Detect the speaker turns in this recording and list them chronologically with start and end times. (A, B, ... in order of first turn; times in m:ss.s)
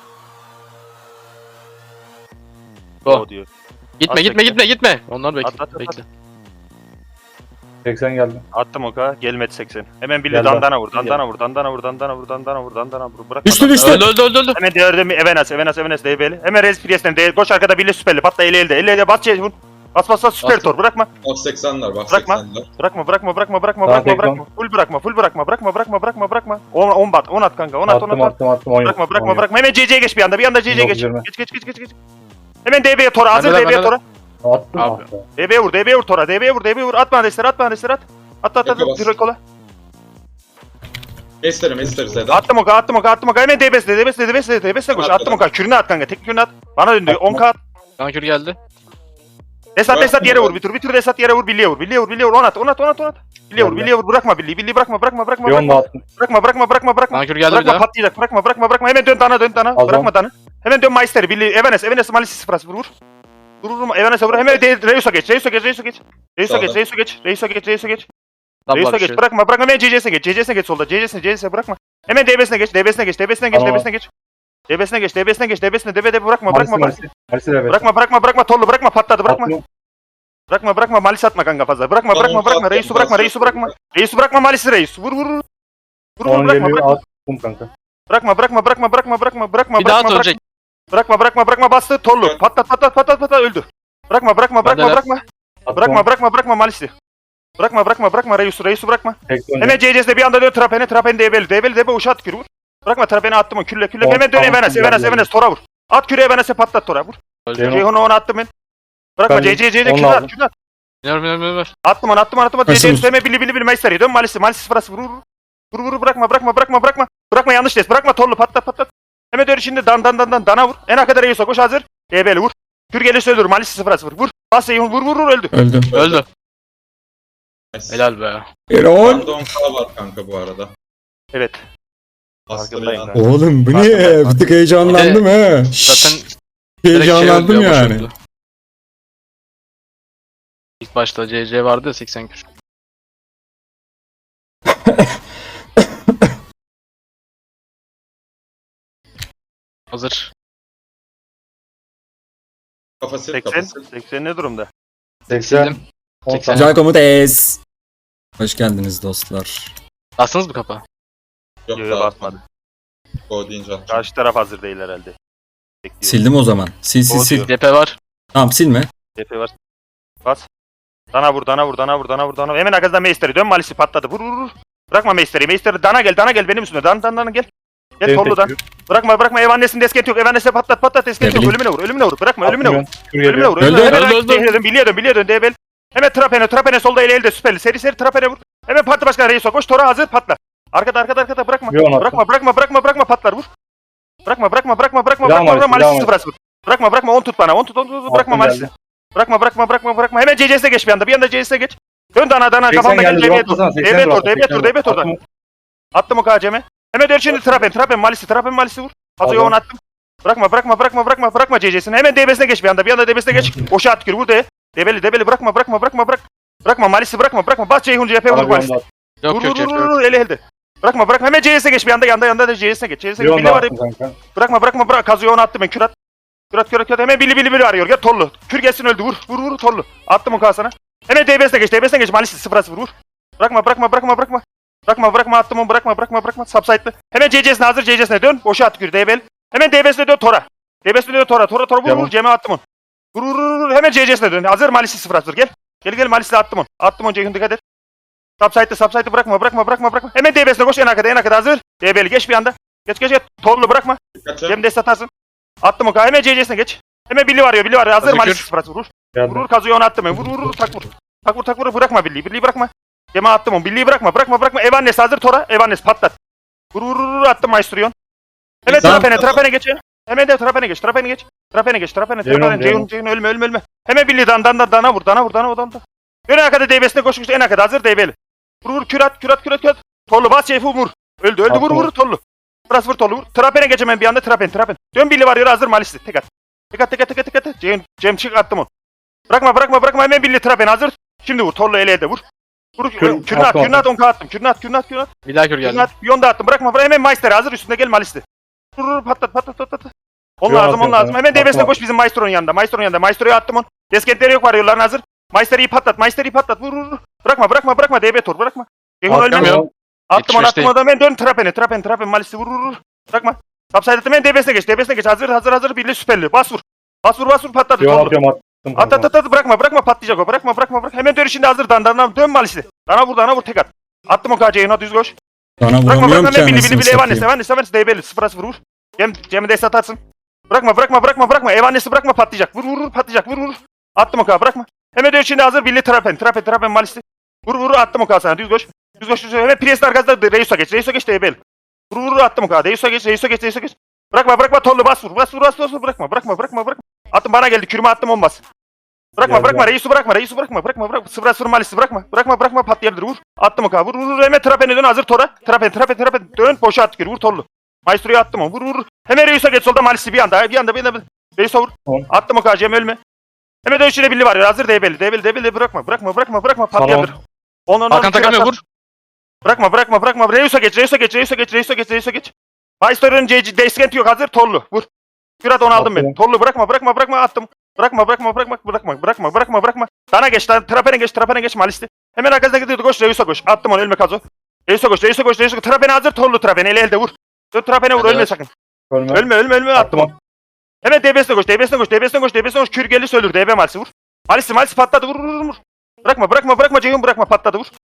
0:03.0-0:03.5 A
0:04.0-0:06.0 B
0:04.1-0:04.6 A
0:05.4-0:06.0 A
0:07.8-0:08.4 C
0:08.5-0:14.0 A
0:10.3-0:11.2 C
0:13.4-0:14.1 D
0:13.8-0:14.6 B
0:14.5-0:21.1 A
0:20.4-0:20.7 B
0:21.2-0:22.7 E
0:22.1-0:31.9 A
0:23.8-0:24.4 C
0:27.9-0:29.4 C
0:30.7-0:31.2 C
0:32.6-0:34.0 A
0:33.3-0:33.9 B
0:34.4-0:35.2 C
0:34.8-0:35.0 B
0:35.4-0:39.4 A
0:38.6-0:39.1 E
0:41.4-0:42.4 E
0:42.3-0:47.6 A
0:44.9-0:45.4 E
0:47.1-0:47.4 C
0:48.0-0:48.6 B
0:49.8-1:02.9 A
0:49.9-0:50.6 E
0:53.6-0:53.9 C
0:55.4-0:56.0 C
0:57.1-0:57.8 B
0:59.8-1:00.1 C
1:03.6-1:08.0 A
1:06.4-1:06.8 E
1:08.7-1:09.2 B
1:08.7-1:14.1 A
1:13.5-1:13.8 C
1:14.7-1:17.0 A
1:16.5-1:17.8 C
1:17.7-1:19.5 A
1:19.3-1:19.6 C
1:20.5-1:25.4 A
1:22.1-1:23.7 E
1:26.2-1:27.0 A
1:26.2-1:27.7 C
1:28.1-1:30.4 A
1:29.8-1:30.4 B
1:30.9-1:35.2 A
1:34.6-1:35.0 B
1:35.7-1:36.0 C
1:35.8-1:36.9 A
1:37.6-1:48.5 A
1:39.3-1:39.8 C
1:44.0-1:45.3 C
1:47.4-1:47.8 B
1:47.6-1:47.8 C
1:49.2-1:50.5 A
1:49.3-1:50.3 C
1:51.0-1:51.7 B
1:51.8-1:55.2 A
1:52.7-1:53.1 D
1:55.7-2:05.5 A
2:05.5-2:05.9 D
2:05.9-2:06.2 E
2:05.9-2:06.2 B
2:07.7-2:08.0 E
2:07.9-2:08.4 B
2:08.7-2:09.5 D
2:09.0-2:10.7 E
2:11.3-2:11.6 A
2:12.5-2:13.2 E
2:12.5-2:15.0 A
2:13.1-2:16.2 D
2:14.9-2:15.2 B
2:15.8-2:16.3 B
2:16.8-2:18.1 D
2:16.9-2:18.1 B
2:20.8-2:22.4 B
2:24.7-2:25.2 D
2:25.8-2:26.4 D
2:29.9-2:30.3 B
2:33.0-2:33.8 E
2:33.3-2:34.7 A
2:35.3-2:36.7 C
2:35.3-2:36.7 B
2:36.5-2:37.6 D
2:38.4-2:39.7 D
2:40.2-2:40.8 B
2:41.7-2:42.4 E
2:41.8-2:42.4 A
2:43.3-2:44.0 E
2:43.9-2:45.1 A
2:45.8-2:46.2 A
2:46.0-2:47.5 D
2:47.1-2:47.5 A
2:47.3-2:47.9 B
2:48.3-2:48.9 D
2:49.2-2:49.5 A
2:51.1-2:57.4 A
2:58.0-3:13.5 A
2:58.0-2:58.6 C
3:01.2-3:01.6 D
3:02.4-3:03.6 C
3:03.6-3:04.0 D
3:03.9-3:04.6 B
3:11.7-3:12.2 C
3:14.2-3:25.1 A
3:15.2-3:16.1 C
3:18.1-3:18.7 C
3:22.7-3:25.2 C
3:25.9-3:38.7 A
3:29.2-3:29.5 C
3:38.3-3:38.8 C
3:39.2-3:39.9 B
3:39.3-3:43.7 A
3:43.2-3:44.1 C
3:44.3-3:45.9 A
3:46.5-4:02.6 A
4:01.8-4:02.1 C
4:03.1-4:07.6 A
4:08.4-4:15.1 A
4:14.2-4:14.6 E
4:15.6-4:26.1 A
4:18.0-4:18.4 B
4:19.1-4:19.4 C
4:20.1-4:20.6 C
4:26.7-4:27.9 A
4:28.6-4:29.4 E
4:28.6-4:38.1 A
4:28.8-4:29.1 D
4:32.2-4:32.8 C
4:38.6-4:42.2 A
4:41.5-4:41.9 C
4:42.7-4:48.6 A
4:49.3-4:52.2 A
4:52.8-4:55.1 A
4:53.0-4:53.8 C
4:55.2-4:55.9 B
4:55.6-4:58.2 A
4:58.8-4:59.9 A
5:00.4-5:09.5 A
5:00.5-5:01.8 C
5:09.1-5:09.7 C
5:09.3-5:09.6 B
5:10.1-5:18.2 A
5:10.2-5:10.7 B
5:17.8-5:19.1 C
5:18.8-5:25.1 A
5:25.6-5:27.3 D
5:25.8-5:30.0 A
5:30.5-5:41.4 A
5:41.9-5:48.4 A
5:49.2-6:03.0 A
5:49.2-5:49.7 C
6:03.6-6:07.1 A
6:06.8-6:07.1 C
6:07.7-6:08.6 A
6:07.9-6:08.6 B
6:09.4-6:14.8 A
6:15.4-6:28.5 A
6:15.8-6:16.1 C
6:28.0-6:28.3 B
6:28.9-6:30.1 C
6:29.1-6:30.1 A
6:30.8-6:37.7 A